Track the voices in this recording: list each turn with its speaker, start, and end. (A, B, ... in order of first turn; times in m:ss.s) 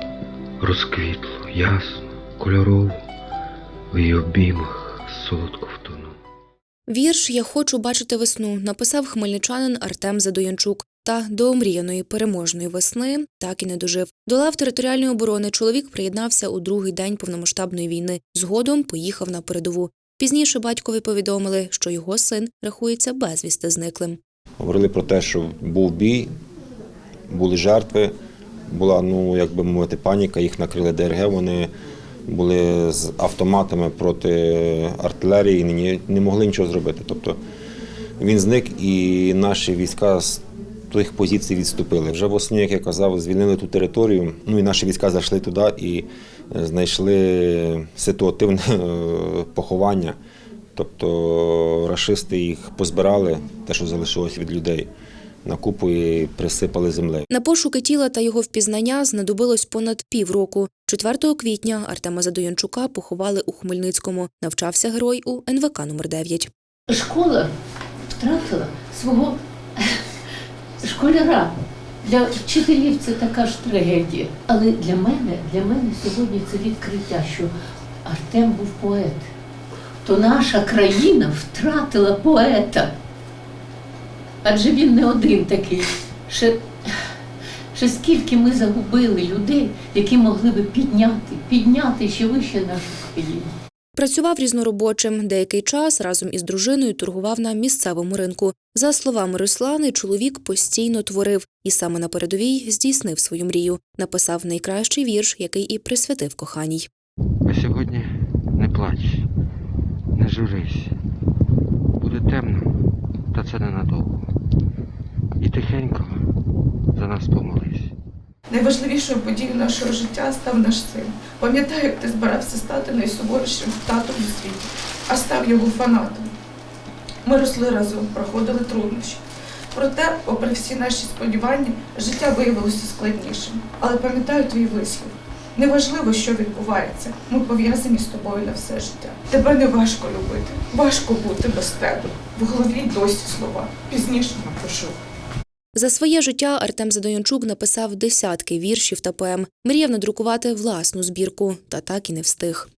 0:00.6-0:03.0 A
0:03.9-0:06.1 A
0:06.9-0:24.2 B
0:24.6-0:26.3 C
0:27.3-0:28.1 C
0:28.7-0:31.7 C
0:32.3-0:37.4 C
0:38.2-0:50.2 C
0:50.8-0:54.9 C
0:55.4-0:57.2 C
0:57.3-1:06.5 B
1:06.9-1:07.5 D
1:08.1-1:10.0 D
1:10.8-1:17.5 D
1:18.0-1:19.3 D
1:20.0-1:22.9 D
1:24.4-1:26.6 D
1:27.7-1:33.5 D
1:34.0-1:46.9 B
1:47.4-1:49.2 A
1:50.1-1:50.9 A
1:52.0-1:52.8 A
1:53.3-1:54.3 A
1:55.4-1:56.2 A
1:56.9-1:57.9 A
1:58.5-2:06.3 E
2:07.2-2:09.2 E
2:09.7-2:24.9 E
2:25.8-2:32.7 B